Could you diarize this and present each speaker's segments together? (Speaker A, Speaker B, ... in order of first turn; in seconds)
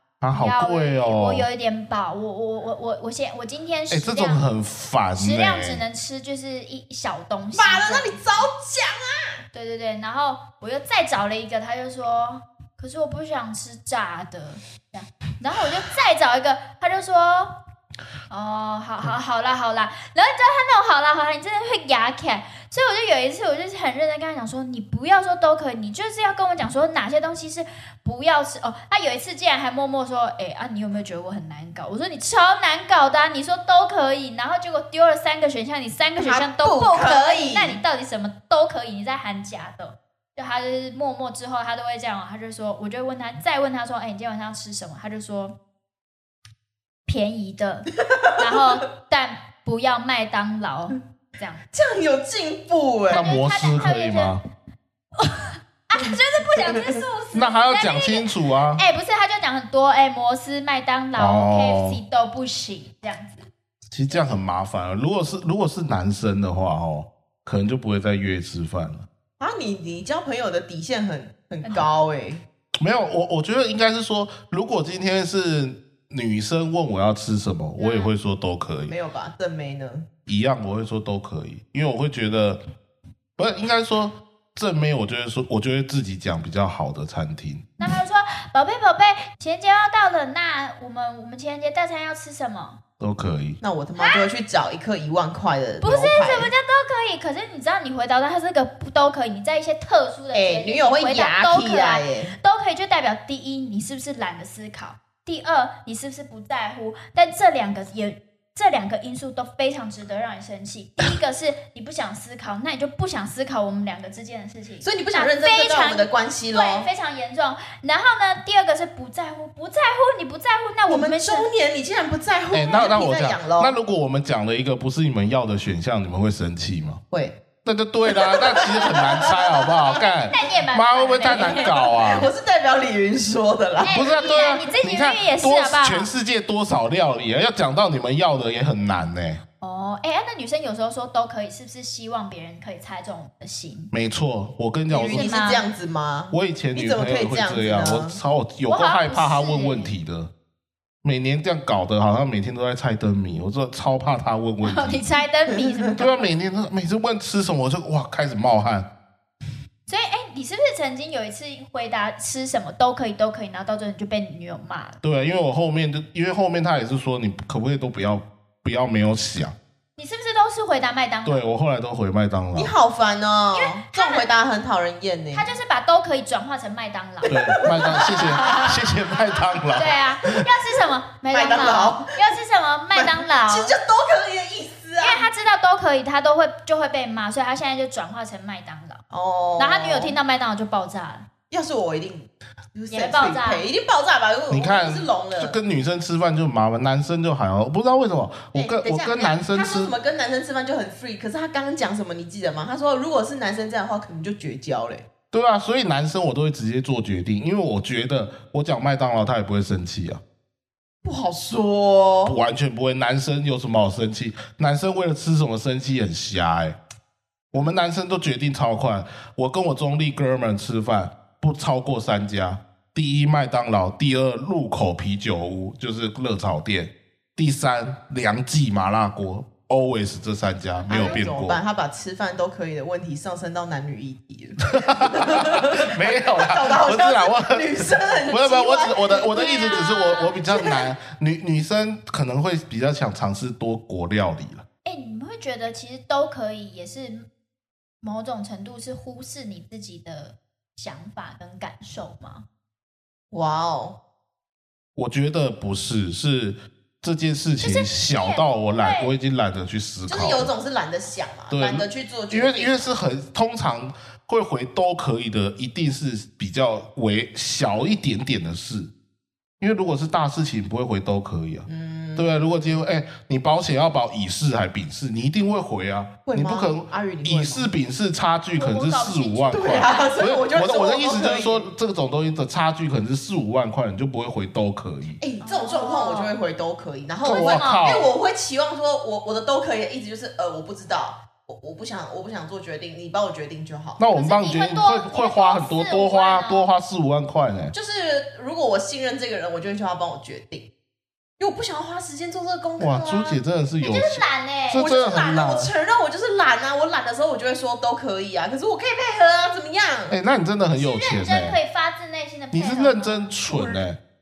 Speaker A: 0.2-1.5, 3.9-5.8, 53.1-54.4, 57.3-58.8, 61.1-62.0, 63.9-69.0, 72.8-78.9, 80.3-82.6, 83.4-87.7, 93.0-93.6, 122.5-127.0, 127.6-132.3, 133.9-139.4, 143.9-145.3, 146.3-150.3, 151.0-155.0, 155.9-158.9, 165.0-169.5, 171.2-172.7, 177.2-180.4, 194.5-199.9, 205.3-210.2, 212.2-216.8, 217.5-231.6, 234.7-244.6, 254.9-260.5, 261.5-268.9, 269.6-285.2, 287.2-288.1, 294.0-297.7, 302.8-305.7, 310.1-311.6, 312.5-314.0
Speaker B: 0.3-4.5, 5.1-8.5, 9.5-17.5, 18.3-45.5, 47.0-51.6, 53.1-54.4, 55.1-63.5, 77.8-78.1, 87.8-92.8, 95.8-121.5, 130.3-131.7, 133.8-136.1, 139.6-143.9, 145.1-145.6, 148.7-149.9, 154.6-156.1, 159.9-165.0, 170.0-171.4, 173.5-174.2, 175.3-178.8, 179.7-183.7, 185.0-189.0, 189.6-191.2, 192.9-193.7, 230.7-231.2, 239.3-240.3, 244.8-247.2, 248.0-252.4, 257.6-259.1, 278.5-280.2, 285.4-286.3, 287.3-287.9, 294.1-296.7, 303.8-304.9, 310.7-313.3
Speaker C: 7.5-9.4, 36.2-37.8, 48.0-48.6, 51.7-53.2, 56.7-57.0, 69.4-72.4, 78.9-80.0, 93.6-96.5, 100.3-102.3, 114.8-116.9, 120.9-123.7, 127.1-127.4, 128.1-130.3, 131.2-134.2, 144.9-148.2, 155.5-155.8, 172.5-175.5, 177.2-179.1, 181.3-182.3, 182.9-185.3, 189.1-190.1, 191.5-195.6, 198.5-205.1, 211.0-212.3, 230.9-240.9, 253.3-254.0, 260.1-262.9, 271.6-272.6, 276.2-277.7, 279.5-281.6, 285.2-294.0, 297.7-300.7, 301.4-303.4, 304.7-310.2, 313.4-313.8